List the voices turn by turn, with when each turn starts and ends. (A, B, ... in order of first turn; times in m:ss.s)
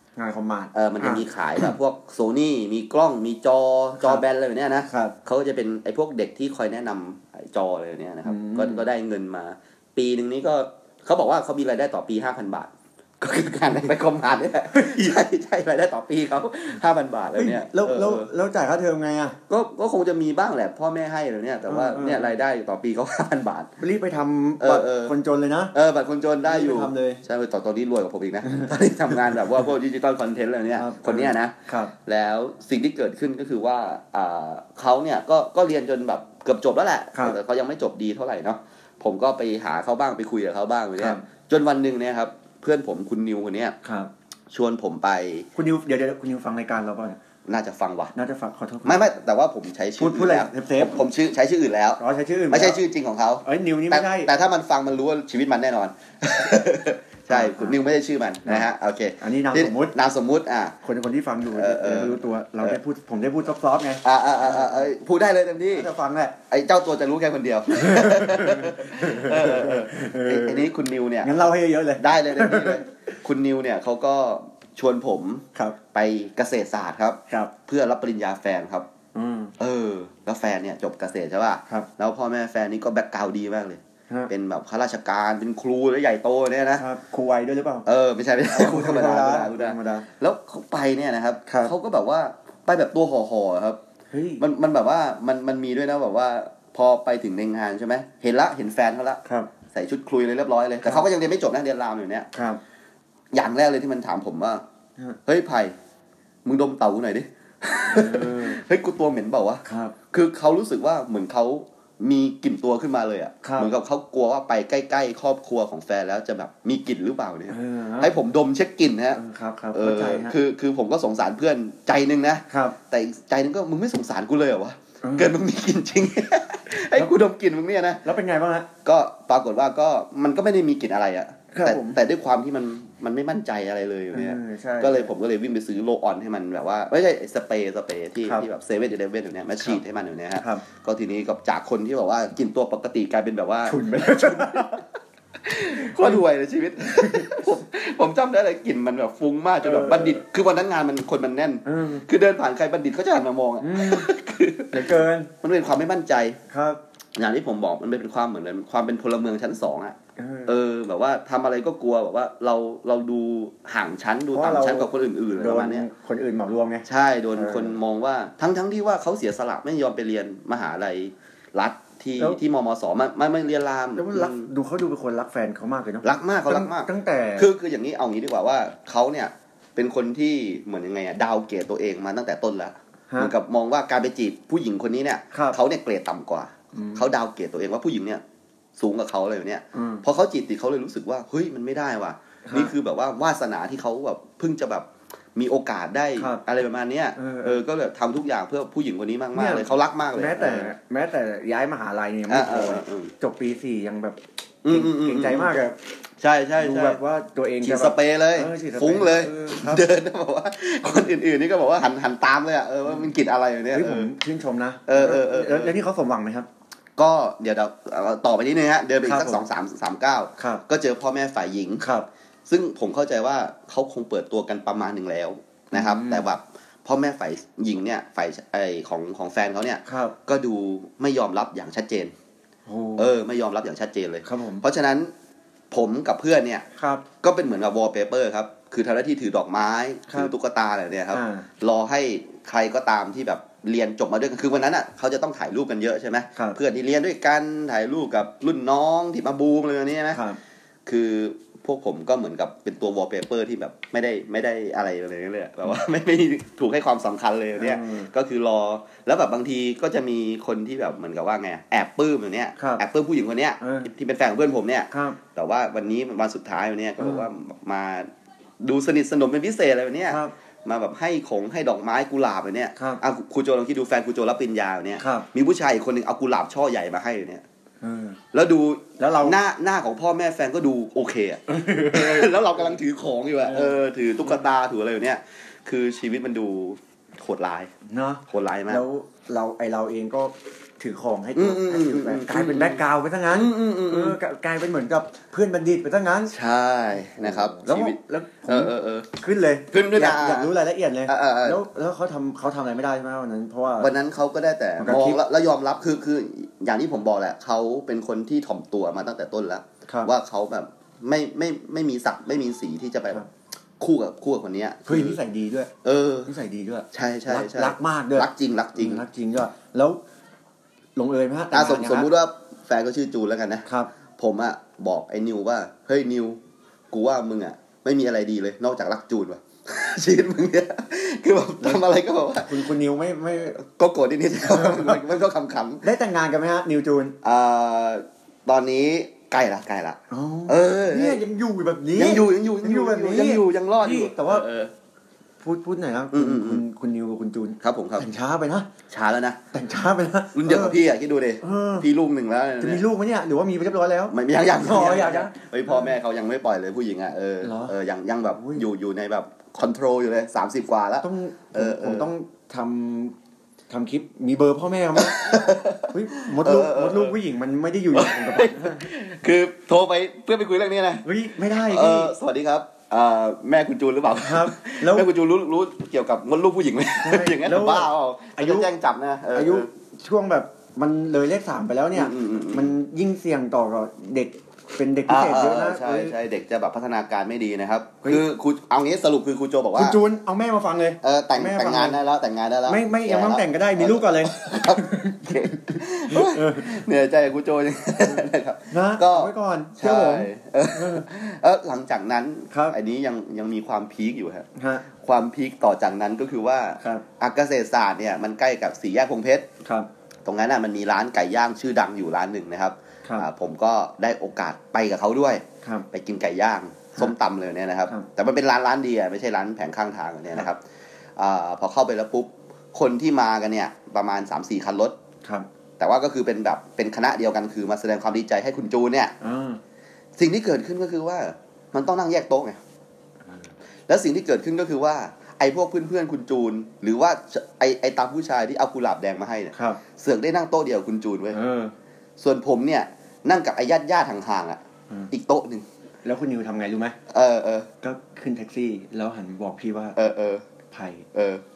0:00.2-0:01.7 A
0:00.7-0:18.3 B
0:04.9-0:05.1 A
0:08.2-0:08.8 A
0:14.7-0:15.1 A
0:17.4-0:19.4 A
0:19.5-0:23.7 B
0:21.7-0:22.3 A
0:23.8-0:25.7 A
0:24.6-0:25.1 B
0:25.7-0:43.8 B
0:26.5-0:27.2 A
0:28.4-0:28.7 A
0:30.8-0:31.9 A
0:41.0-0:41.2 A
0:43.8-0:44.1 A
0:44.5-0:45.5 B
0:45.6-0:47.2 A
0:47.4-0:48.1 B
0:48.1-0:49.0 A
0:48.8-1:00.7 B
0:50.0-0:51.0 A
0:52.0-0:52.8 A
0:53.4-0:54.3 A
0:57.3-0:57.8 A
0:59.2-1:00.0 A
1:00.8-1:04.9 A
1:01.5-1:02.8 B
1:04.0-1:05.9 B
1:05.7-1:06.3 A
1:06.5-1:11.4 B
1:07.7-1:10.7 A
1:11.2-1:12.8 A
1:12.0-1:18.9 B
1:19.1-1:19.5 A
1:19.6-1:26.8 B
1:26.8-1:27.9 A
1:27.9-1:33.8 B
1:28.5-1:30.1 A
1:31.5-1:31.7 A
1:34.1-1:34.4 A
1:34.4-1:42.3 B
1:42.3-1:42.6 A
1:43.3-1:44.6 B
1:45.3-1:45.8 B
1:46.4-1:59.2 B
1:47.9-1:48.6 A
1:49.6-1:50.0 A
1:53.4-1:53.7 A
1:57.5-1:58.1 A
1:59.2-2:00.3 A
1:59.7-2:08.0 B
2:02.5-2:02.8 A
2:05.0-2:05.3 A
2:08.0-2:08.7 A
2:08.8-2:24.8 B
2:11.5-2:12.0 A
2:14.1-2:15.1 A
2:20.4-2:20.6 A
2:23.6-2:24.8 A
2:25.4-2:36.4 B
2:25.8-2:26.2 A
2:27.0-2:27.4 A
2:29.6-2:30.2 A
2:31.6-2:32.0 A
2:33.6-2:34.1 A
2:34.7-2:35.3 A
2:36.5-2:36.8 A
2:37.2-2:40.0 B
2:40.2-2:40.6 A
2:40.5-2:45.9 B
2:44.3-2:47.8 A
2:46.8-2:54.5 B
2:54.0-2:57.5 A
2:56.0-3:08.2 B
3:05.3-3:05.6 A
3:06.7-3:07.1 A
3:08.8-3:20.7 B
3:09.7-3:10.0 A
3:12.4-3:12.7 A
3:16.2-3:16.4 A
3:17.2-3:17.6 A
3:19.3-3:25.8 A
3:22.3-3:23.1 B
3:24.6-3:25.6 B
3:26.2-3:27.0 B
3:26.6-3:29.8 A
3:27.6-3:34.1 B
3:33.7-3:36.5 A
3:34.9-3:35.8 B
3:37.0-3:41.8 B
3:39.0-3:39.4 A
3:41.8-3:42.1 A
3:42.5-3:52.1 B
3:45.7-3:46.3 A
3:49.9-3:50.1 A
3:52.7-3:53.1 A
3:53.0-3:55.1 B
3:54.2-3:54.6 A
3:55.7-3:56.6 B
3:56.8-3:57.0 A
3:57.2-4:10.2 B
4:01.1-4:01.5 A
4:10.1-4:10.4 A
4:10.9-4:28.1 B
4:17.6-4:18.1 A
4:22.6-4:22.8 A
4:23.6-4:23.9 A
4:24.9-4:25.2 A
4:27.0-4:27.3 A
4:28.6-4:37.4 B
4:30.1-4:30.3 A
4:32.8-4:33.0 A
4:35.0-4:35.3 A
4:37.8-4:38.2 A
4:38.3-4:47.7 B
4:39.0-4:39.4 A
4:41.5-4:42.3 A
4:43.4-4:43.8 A
4:47.9-4:56.3 A
4:48.3-4:48.8 B
4:51.3-4:54.2 B
4:56.3-4:59.1 B
4:57.2-5:03.9 A
4:59.7-5:00.5 B
5:01.0-5:01.6 B
5:03.8-5:13.2 B
5:04.8-5:05.2 A
5:13.8-5:15.2 B
5:14.9-5:15.7 A
5:15.8-5:16.3 B
5:16.3-5:20.0 A
5:16.9-5:19.0 B
5:21.0-5:22.1 A
5:21.5-5:23.6 B
5:23.6-5:23.9 A
5:24.2-5:26.4 B
5:26.9-5:32.7 B
5:32.4-5:33.6 A
5:33.5-5:35.8 B
5:34.4-5:35.0 A
5:35.8-5:37.2 A
5:37.2-5:41.2 B
5:40.1-5:44.4 A
5:42.0-5:44.7 B
5:45.4-5:48.7 A
5:46.1-5:46.6 B
5:47.6-5:48.0 B
5:48.9-5:49.4 B
5:49.5-5:50.8 A
5:50.3-5:52.8 B
5:51.4-5:51.9 A
5:52.6-5:55.9 A
5:54.1-6:02.1 B
5:57.4-5:57.7 A
5:58.3-5:58.6 A
6:01.0-6:03.1 A
6:03.7-6:08.8 A
6:05.0-6:07.2 B
6:07.9-6:11.0 B
6:11.0-6:12.1 A
6:11.6-6:19.7 B
6:14.2-6:15.1 A
6:17.0-6:18.7 A
6:19.3-6:26.1 A
6:21.9-6:22.7 B
6:25.1-6:30.0 B
6:29.8-6:32.0 A
6:31.0-6:49.5 B
6:32.7-6:36.7 A
6:38.0-6:41.0 A
6:42.5-6:42.8 A
6:44.6-6:44.9 A
6:49.6-6:49.9 A
6:50.2-7:00.6 B
6:53.0-6:53.3 A
7:01.2-7:05.0 B
7:05.8-7:09.1 B
7:09.2-7:09.6 A
7:10.2-7:12.6 B
7:13.9-7:21.4 B
7:19.6-7:19.8 A
7:21.3-7:21.7 A
7:22.2-7:25.6 B
7:26.0-7:27.0 A
7:27.1-7:27.7 B
7:27.8-7:30.0 A
7:30.0-7:30.4 B
7:30.7-7:31.1 A
7:31.1-7:31.4 B